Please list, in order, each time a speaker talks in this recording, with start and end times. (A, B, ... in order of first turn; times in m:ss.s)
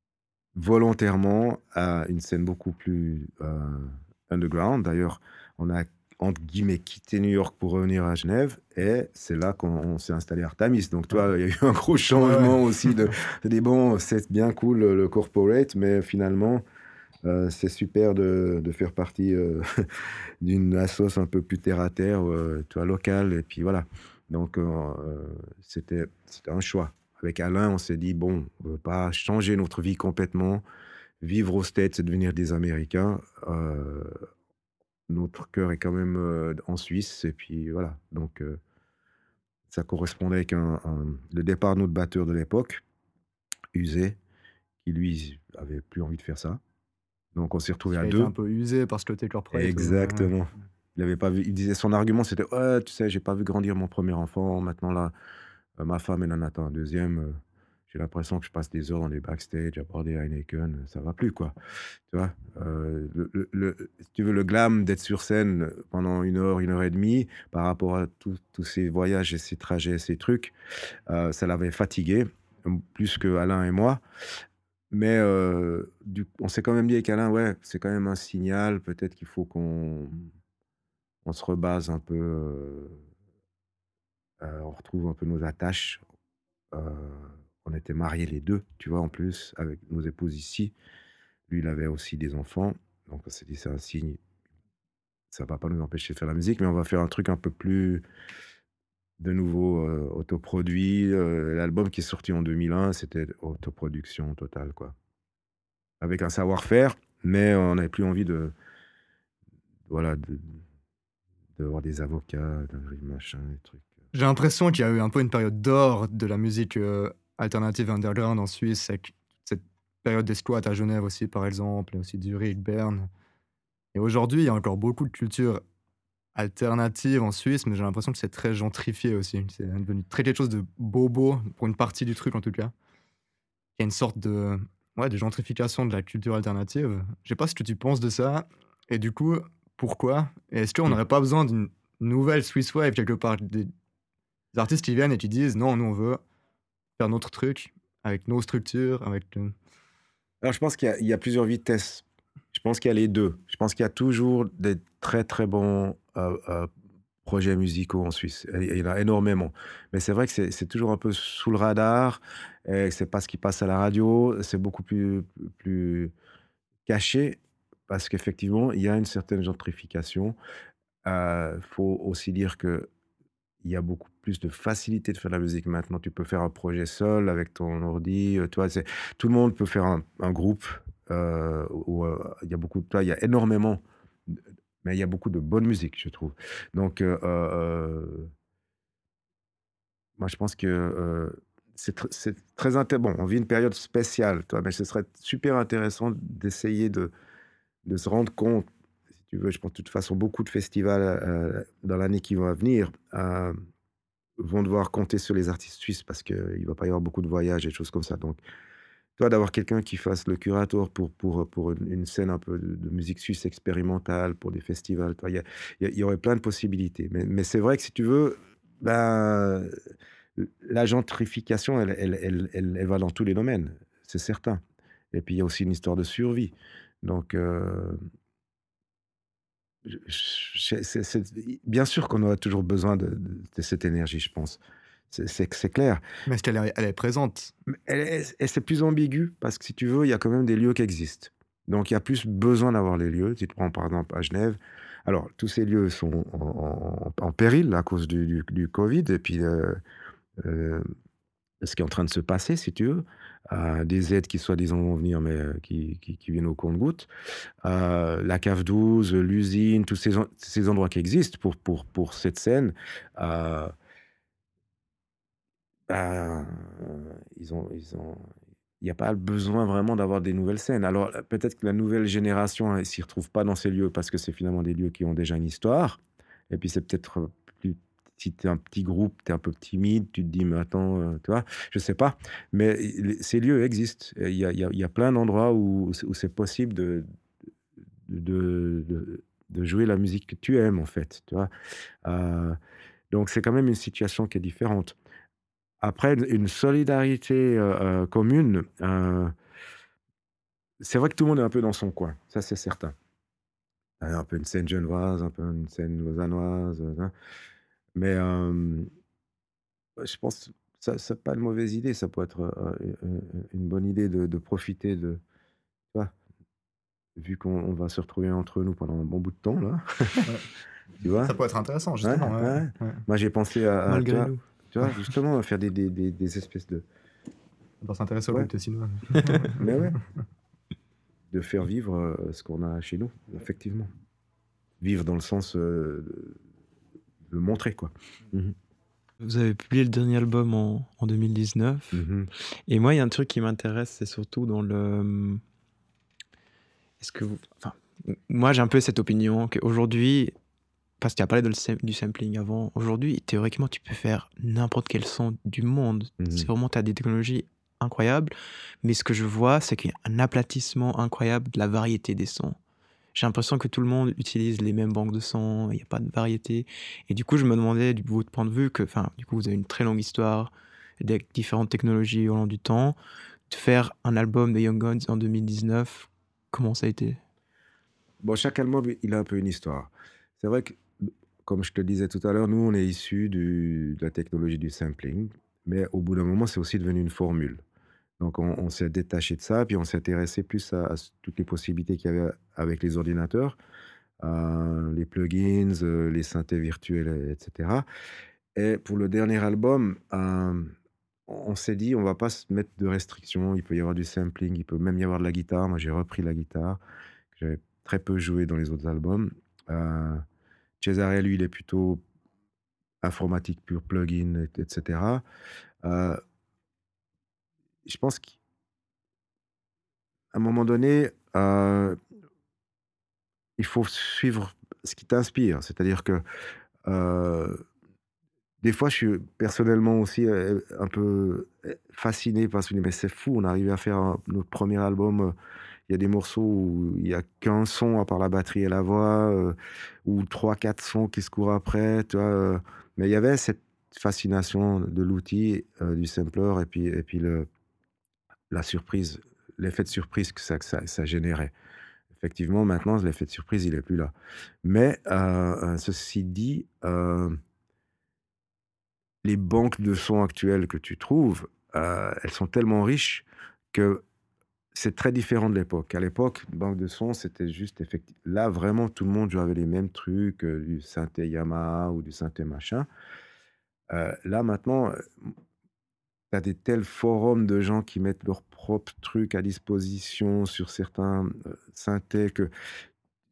0:00.6-0:16.6 A
0:12.1-0:12.6 B
0:17.2-0:19.8 A
0:20.4-0:30.6 A
0:31.2-0:34.1 A
0:35.1-0:38.6 A
0:39.7-0:42.8 A
0:43.7-0:44.2 A
0:44.8-0:46.6 A
0:47.3-0:48.3 A
0:47.9-0:50.3 B
0:49.5-0:55.1 A
0:55.8-0:57.4 A
0:57.9-1:01.6 A
1:02.1-1:10.5 A
1:11.1-1:14.0 A
1:14.9-1:20.2 A
1:21.2-1:23.0 A
1:24.4-1:26.0 A
1:26.7-1:30.7 A
1:31.5-1:34.2 A
1:35.3-1:38.0 A
1:39.2-1:44.9 A
1:46.0-1:48.5 A
1:49.9-1:50.6 A
1:51.6-1:53.8 A
1:54.1-2:03.1 B
2:03.9-2:05.6 B
2:06.4-2:12.7 B
2:13.8-2:23.7 B
2:24.5-2:26.2 B
2:27.0-2:29.5 B
2:30.4-2:36.7 A
2:37.2-2:46.1 A
2:46.9-2:50.4 A
2:51.0-2:52.9 A
2:53.6-3:08.3 A
3:10.2-3:17.1 A
3:17.9-3:18.7 A
3:19.3-3:23.6 A
3:24.4-3:28.4 A
3:29.2-3:39.8 A
3:40.4-3:44.6 A
3:45.1-3:48.0 A
3:49.9-3:56.0 A
3:56.3-3:57.5 B
3:57.7-4:09.8 A
4:10.4-4:10.8 A
4:11.6-4:17.1 A
4:17.6-4:23.7 A
4:25.9-4:28.3 A
4:28.8-4:47.1 A
4:48.1-4:51.5 A
4:52.0-4:52.6 A
4:53.1-4:55.0 A
4:55.8-4:59.3 A
5:00.8-5:02.9 A
5:04.0-5:07.1 A
5:08.0-5:08.9 A
5:10.0-5:15.2 A
5:17.2-5:20.3 A
5:21.0-5:21.4 A
5:21.2-5:23.0 B
5:22.0-5:26.8 A
5:23.9-5:24.4 C
5:27.8-5:29.6 B
5:29.1-5:29.5 C
5:29.5-5:30.0 A
5:31.3-5:33.9 A
5:34.8-5:36.4 A
5:37.3-5:38.6 A
5:39.2-5:42.0 C
5:41.9-5:42.3 A
5:42.7-5:45.4 C
5:47.0-5:50.3 C
5:51.0-6:02.6 C
5:56.2-5:56.5 A
6:03.1-6:13.0 C
6:13.5-6:17.2 C
6:18.2-6:20.8 A
6:21.4-6:27.6 A
6:28.2-6:33.6 A
6:34.2-6:37.9 A
6:38.6-6:40.7 A
6:41.3-6:46.8 A
6:47.3-6:50.2 A
6:50.8-6:52.0 A
6:53.0-6:55.2 A
6:55.8-6:56.2 A
6:57.9-6:58.4 A
7:00.3-7:02.0 A
7:03.6-7:06.2 A
7:06.8-7:07.6 A
7:08.6-7:15.3 A
7:15.9-7:27.5 A
7:28.5-7:31.5 A
7:32.1-7:34.1 A
7:34.6-7:37.4 A
7:39.2-7:44.0 A
7:44.7-7:52.9 A
7:53.9-7:55.3 A
7:56.3-8:02.5 A